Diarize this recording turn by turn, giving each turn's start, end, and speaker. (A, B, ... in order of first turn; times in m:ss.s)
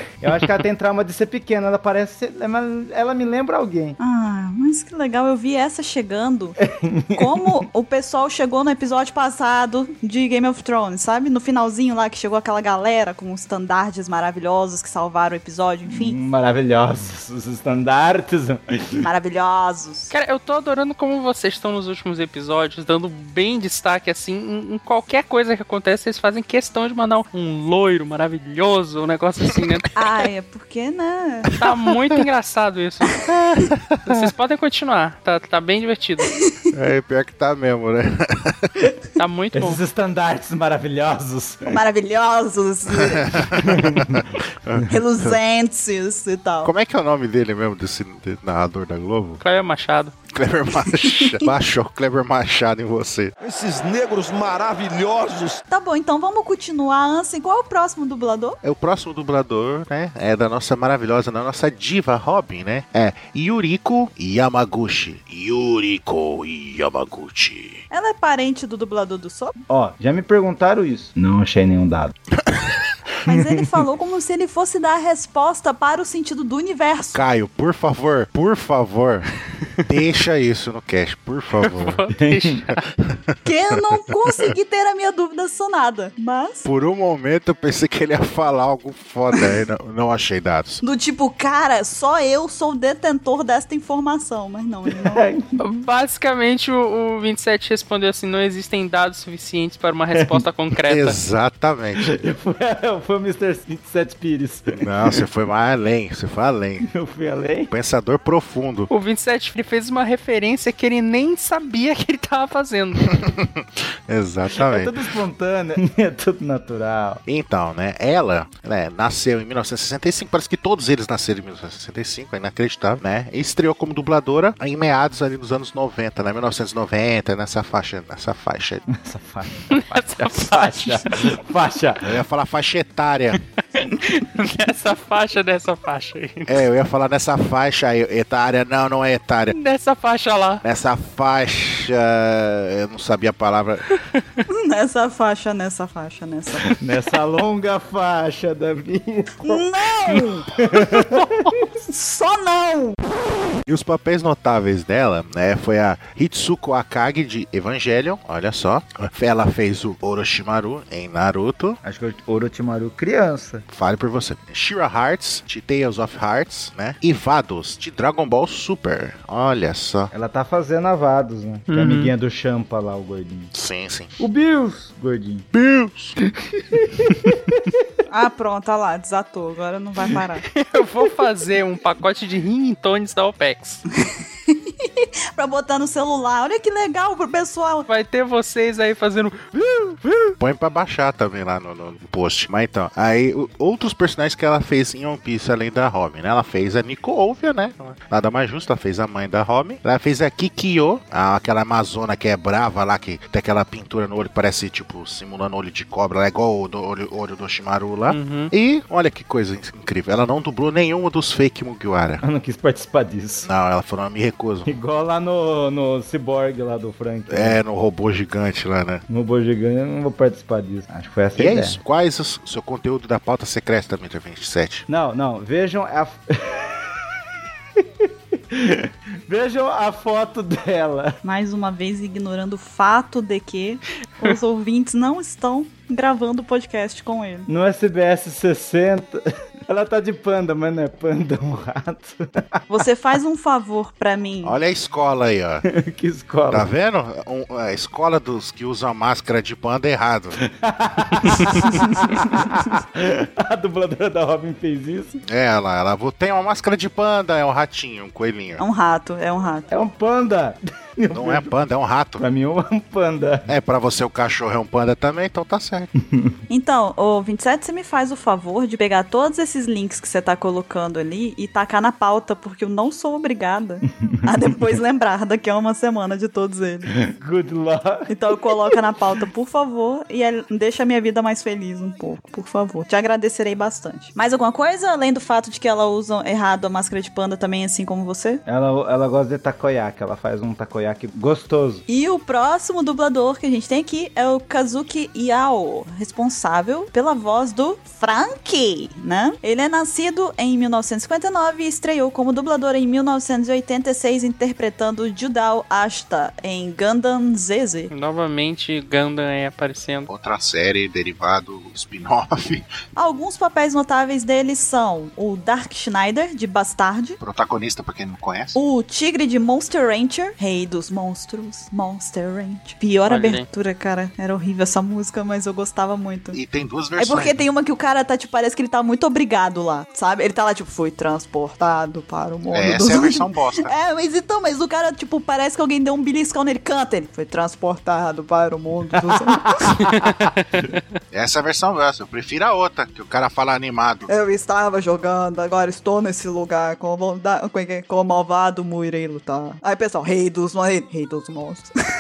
0:00.2-0:04.0 A
0:04.0-0:06.6 B
0:06.6-0:07.6 A
0:07.2-0:16.2 B
0:15.9-0:19.1 A
0:19.0-0:20.1 B
0:20.1-0:29.9 C
0:30.0-0:31.5 B
0:31.6-0:33.2 C
0:33.3-0:33.9 D
0:34.0-0:36.3 C
0:36.3-0:36.6 B
0:36.7-0:38.8 D
0:39.2-0:39.8 C
0:39.5-0:41.8 A
0:41.7-0:43.5 B
0:43.1-0:45.4 D
0:43.6-0:44.3 A
0:44.9-0:46.7 B
0:46.6-0:49.4 D
0:49.4-0:50.1 C
0:50.3-0:53.3 D
0:53.4-0:55.6 E
0:55.7-0:58.6 B
0:58.6-1:07.8 D
1:07.9-1:09.6 B
1:09.7-1:12.1 A
1:12.4-1:12.8 D
1:13.2-1:17.2 B
1:13.3-1:13.8 A
1:17.1-1:19.3 D
1:19.8-1:22.0 D
1:21.6-1:22.8 C
1:22.2-1:22.6 A
1:22.9-1:23.4 D
1:23.4-1:26.7 B
1:26.6-1:30.8 D
1:30.8-1:35.3 B
1:34.9-1:35.5 A
1:35.6-1:41.2 C
1:40.1-1:40.4 A
1:40.9-1:42.1 D
1:42.0-1:45.2 A
1:44.8-1:46.9 D
1:46.8-1:47.7 A
1:47.7-1:48.9 D
1:48.9-1:53.1 C
1:53.0-1:55.0 D
1:54.6-1:57.2 A
1:57.3-2:08.8 D
2:08.9-2:12.2 A
2:09.7-2:11.3 C
2:12.0-2:13.4 D
2:13.8-2:16.6 C
2:16.5-2:19.6 D
2:19.5-2:20.6 C
2:20.6-2:23.9 D
2:24.6-2:26.8 B
2:26.6-2:29.6 A
2:29.4-2:30.5 B
2:30.5-2:31.7 A
2:30.7-2:31.6 C
2:31.8-2:33.0 B
2:33.7-2:41.8 D
2:41.8-2:43.6 A
2:43.7-2:50.1 D
2:50.1-2:53.5 A
2:51.7-2:52.1 C
2:53.5-2:54.1 D
2:54.2-2:55.5 A
2:55.5-2:56.2 D
2:56.5-2:57.9 A
2:58.1-3:00.5 B
3:00.5-3:03.8 C
3:04.0-3:07.9 B
3:07.9-3:10.3 C
3:10.4-3:32.2 D
3:28.1-3:28.5 C
3:32.2-3:33.5 A
3:33.4-3:34.7 D
3:34.7-3:37.6 A
3:37.3-3:39.0 D
3:39.1-3:41.8 A
3:41.4-3:44.8 D
3:44.9-3:47.1 A
3:47.8-3:51.2 A
3:51.2-3:57.5 B
3:57.5-4:02.7 A
4:02.7-4:04.6 B
4:04.4-4:05.6 D
4:05.6-4:06.7 A
4:06.5-4:10.4 D
4:10.4-4:15.2 A
4:11.2-4:11.5 D
4:15.3-4:18.6 D
4:18.6-4:19.7 B
4:19.7-4:21.5 A
4:21.1-4:22.2 D
4:22.2-4:23.5 A
4:23.5-4:25.9 D
4:26.5-4:36.9 B
4:33.9-4:34.3 A
4:36.9-4:38.8 A
4:38.1-4:48.4 B
4:48.5-4:51.8 A
4:51.9-5:07.9 B
5:07.9-5:10.1 C
5:10.1-5:12.7 D
5:13.0-5:17.2 B
5:17.2-5:18.6 D
5:18.6-5:26.4 B
5:23.1-5:23.5 C
5:26.3-5:27.4 D
5:27.0-5:39.7 B
5:32.5-5:33.7 D
5:39.2-5:40.3 A
5:39.8-5:40.8 C
5:41.1-5:44.1 D
5:44.1-5:51.7 B